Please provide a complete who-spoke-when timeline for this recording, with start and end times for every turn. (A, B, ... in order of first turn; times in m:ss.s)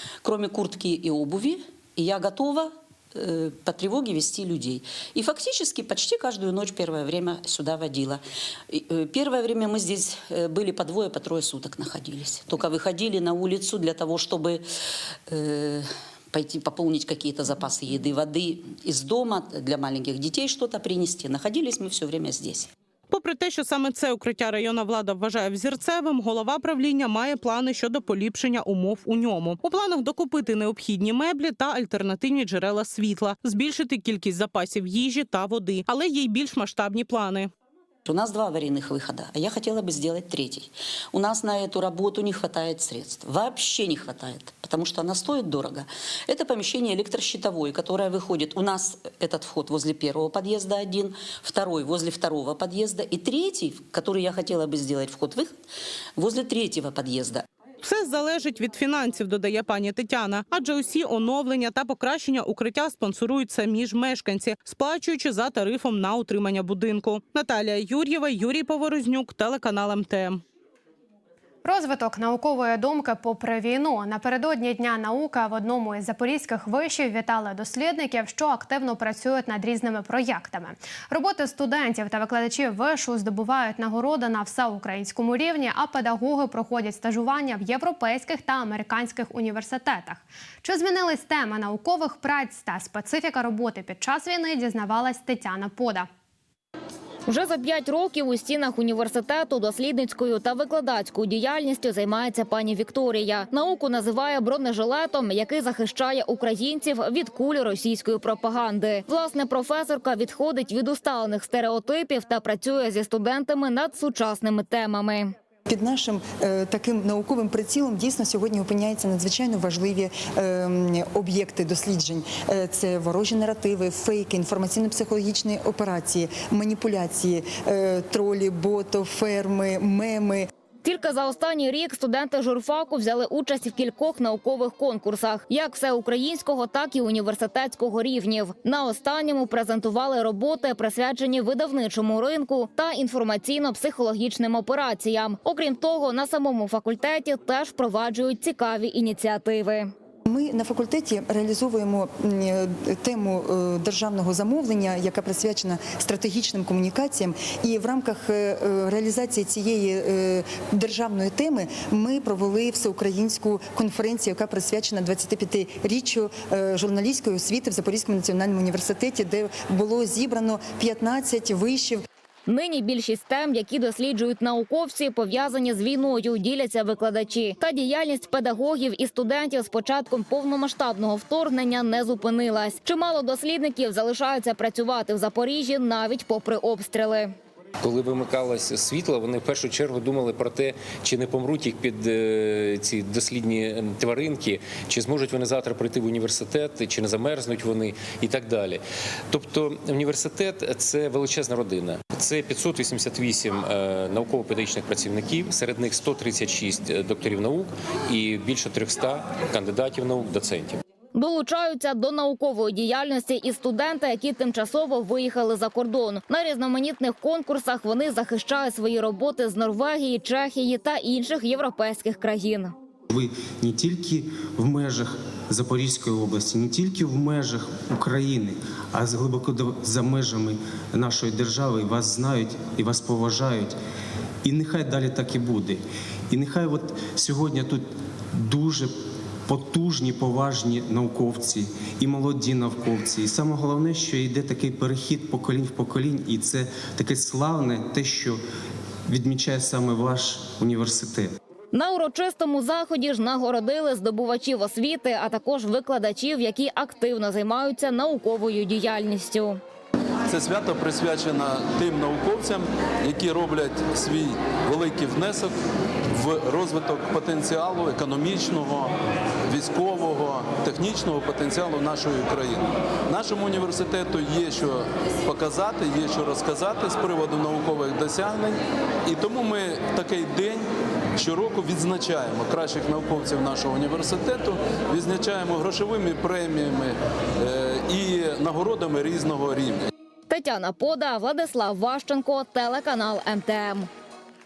0:00.2-0:14.6 A
0:15.3-0:22.7 A
0:23.1-0:37.5 B
0:38.0-0:55.6 A
0:56.2-0:57.4 A
0:57.8-1:10.4 B
1:11.6-1:36.1 C
1:37.3-1:55.3 D
1:55.7-2:10.5 E
2:10.8-2:29.9 D
2:30.3-2:52.0 E
2:52.5-3:07.3 D
3:07.8-3:30.8 F
3:31.1-3:42.7 D
3:43.1-3:53.8 G
3:54.4-4:08.4 G
4:09.1-4:11.4 G
4:11.7-4:19.6 D
4:20.3-4:25.6 H
4:26.1-4:29.0 H
4:29.5-4:49.9 H
4:50.3-4:53.9 D